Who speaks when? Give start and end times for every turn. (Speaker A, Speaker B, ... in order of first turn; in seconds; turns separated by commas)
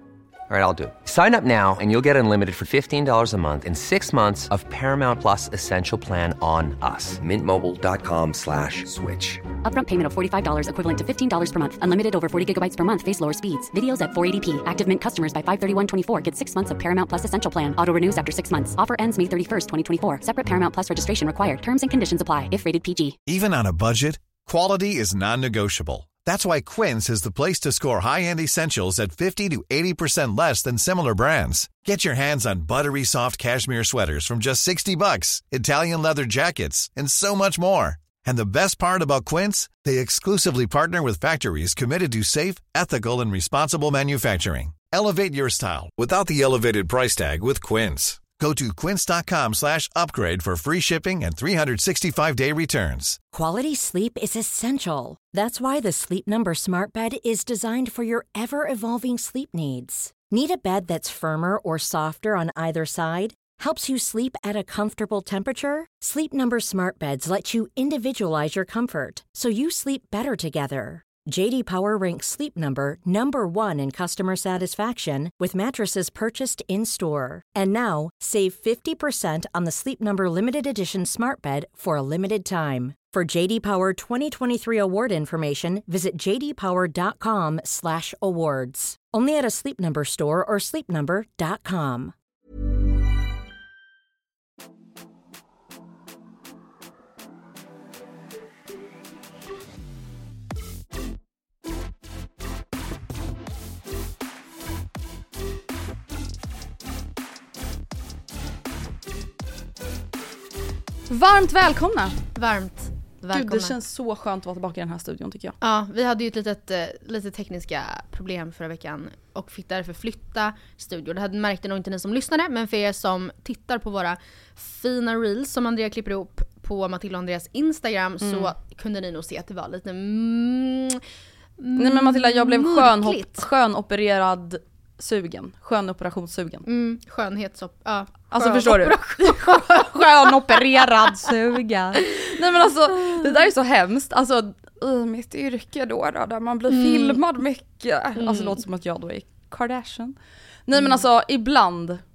Speaker A: 0.5-9.5, Speaker B: 9.6-23.2, Speaker C: 23.3-53.2, Speaker D: 53.3-92.1, Speaker E: 111.1-112.2, Speaker F: 112.3-113.7, Speaker E: 113.3-115.6, Speaker F: 115.6-131.0, Speaker E: 128.2-128.5, Speaker F: 131.6-133.5, Speaker E: 131.8-136.7, Speaker F: 136.7-141.3, Speaker E: 138.3-150.2, Speaker F: 146.7-147.2, Speaker F: 148.2-148.6, Speaker E: 150.7-152.0